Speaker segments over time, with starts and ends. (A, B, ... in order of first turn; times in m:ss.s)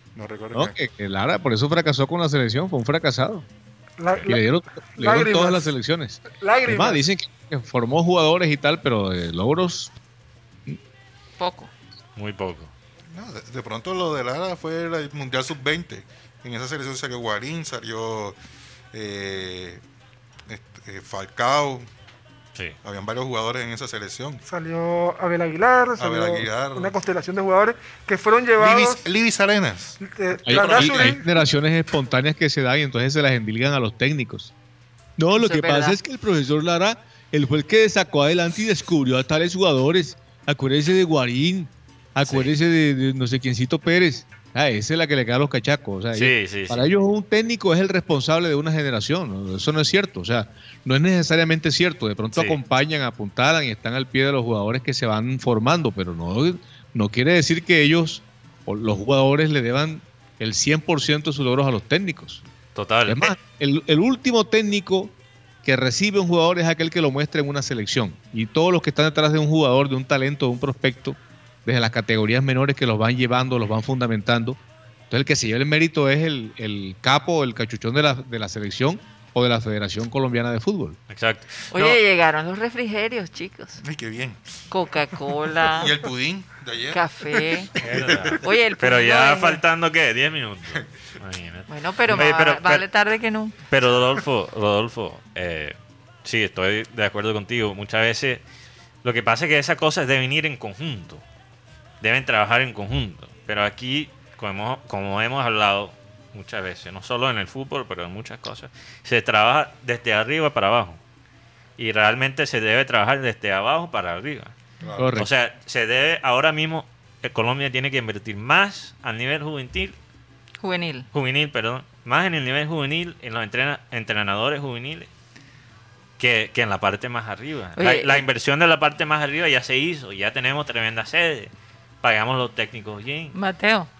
0:00.1-0:00.7 A
0:00.5-0:03.4 B
0:04.0-0:05.7 C
0:04.2-0:09.9 B
0:06.3-0:07.0 C
0:11.4-0:11.7 D
0:12.2-0:12.7 E
0:13.1-0:18.4 A
0:18.9-0:19.8 A
0:20.5-0:21.9 A
0:22.8-0:24.4 A
0:24.4-0:29.0 C
0:26.0-0:27.0 A
0:28.6-0:31.2 A
0:30.0-0:31.2 C
0:30.4-0:34.5 B
0:35.2-1:02.4 B
0:35.3-0:36.0 D
0:42.2-0:42.5 E
0:46.1-0:46.9 E
0:52.3-0:52.6 E
1:02.7-1:03.4 E
1:03.1-1:14.6 B
1:15.1-1:21.0 B
1:21.1-1:22.0 E
1:21.7-1:23.8 D
1:23.8-1:24.6 A
1:24.7-1:25.9 D
1:25.6-1:28.4 A
1:26.9-1:27.7 D
1:27.8-1:32.8 E
1:28.3-1:29.6 D
1:31.7-1:33.6 D
1:33.7-1:38.4 E
1:39.0-1:41.2 E
1:42.0-1:51.0 E
1:51.8-1:54.5 E
1:54.8-1:55.2 A
1:55.0-1:55.3 B
1:55.2-2:00.0 E
2:00.6-2:01.1 D
2:01.1-2:05.1 E
2:06.2-2:11.5 E
2:07.8-2:08.2 D
2:12.0-2:13.4 E
2:13.3-2:13.9 D